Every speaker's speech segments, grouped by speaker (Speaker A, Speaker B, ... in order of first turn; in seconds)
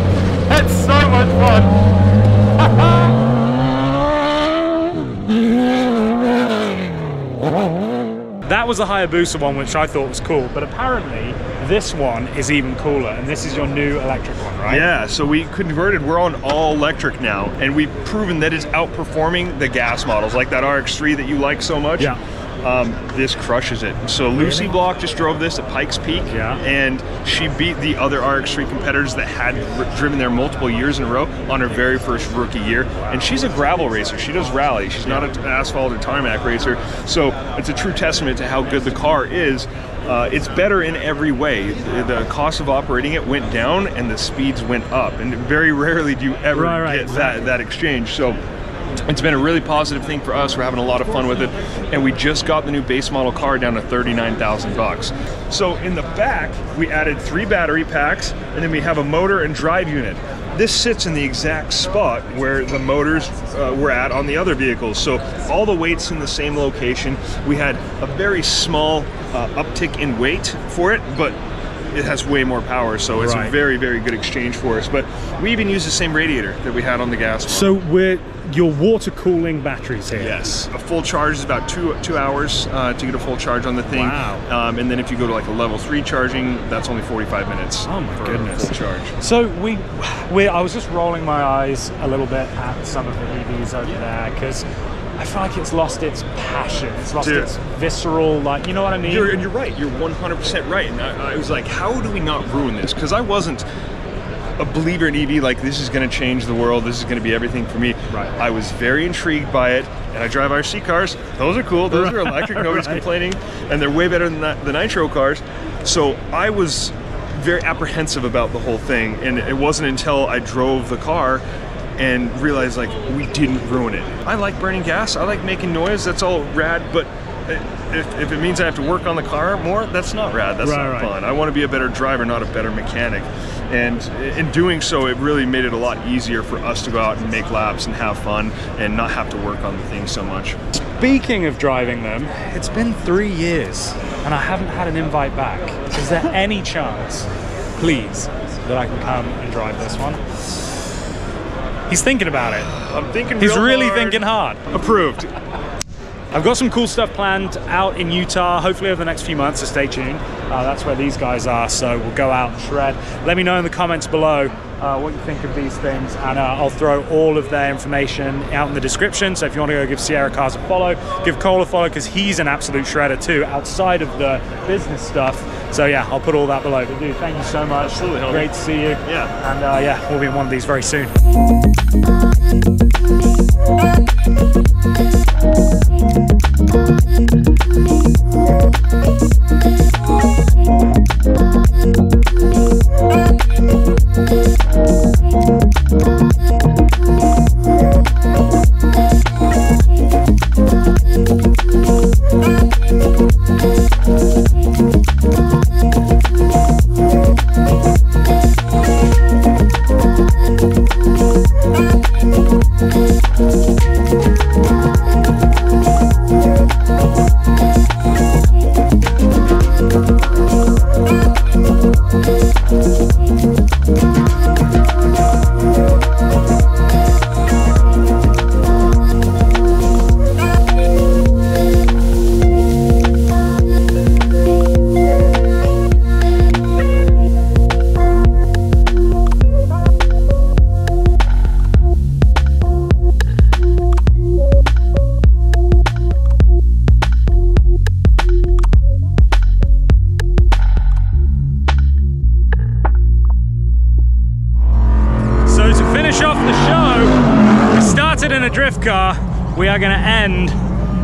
Speaker A: 0.5-1.8, 8.4-14.9, 24.3-24.7, 26.3-26.6, 46.5-47.5, 73.2-73.5, 77.5-80.6, 83.9-84.5, 87.8-94.7, 95.2-99.3, 111.9-113.0, 130.6-131.1, 141.0-150.4, 151.9-152.7, 153.4-154.7, 156.3-181.1, 255.4-260.6
Speaker B: 14.7-48.4, 49.1-71.4, 71.9-77.7, 80.2-89.1, 97.2-97.5, 99.0-103.7, 104.6-121.4, 122.0-140.6, 152.6-155.3, 177.8-179.3